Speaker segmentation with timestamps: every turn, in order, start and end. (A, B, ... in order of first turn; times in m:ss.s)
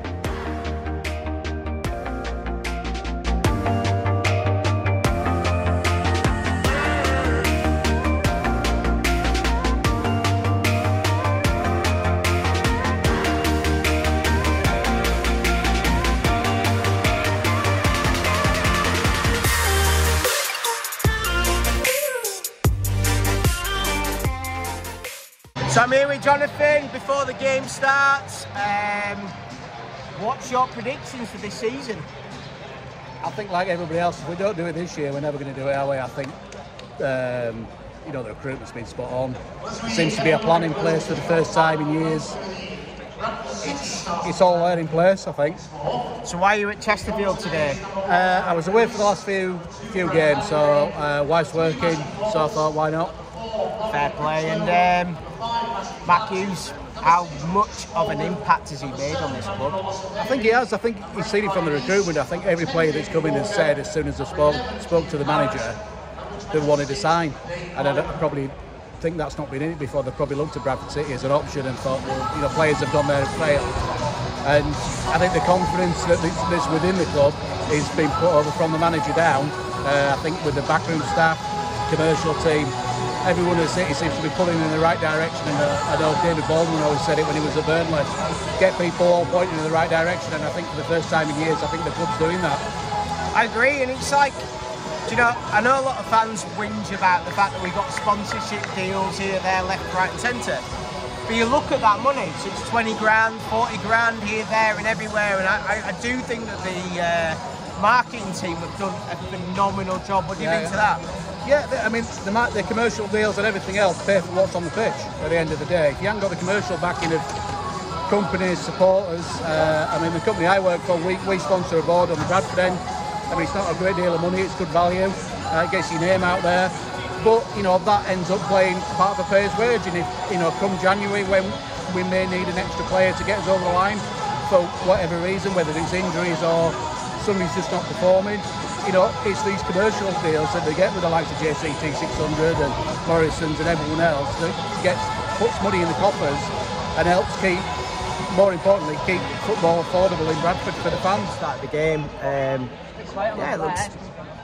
0:25.7-0:29.3 A
0:30.1-0:32.1 A
0:33.2-0:36.4 B
0:37.0-0:42.4 B
0:43.8-0:45.7 B
0:46.2-0:47.9 A
0:48.0-0:53.2 B
0:53.9-0:55.2 A
0:56.0-0:59.8 A
1:00.2-1:05.8 B
1:06.5-1:13.8 B
1:14.4-1:32.6 B
1:33.3-1:34.5 A
1:35.1-1:40.7 A
1:41.3-1:51.0 A
1:50.4-1:50.8 B
1:51.4-1:57.3 B
1:58.1-2:27.7 B
2:28.2-2:31.4 B
2:31.3-2:32.7 A
2:33.3-2:34.0 A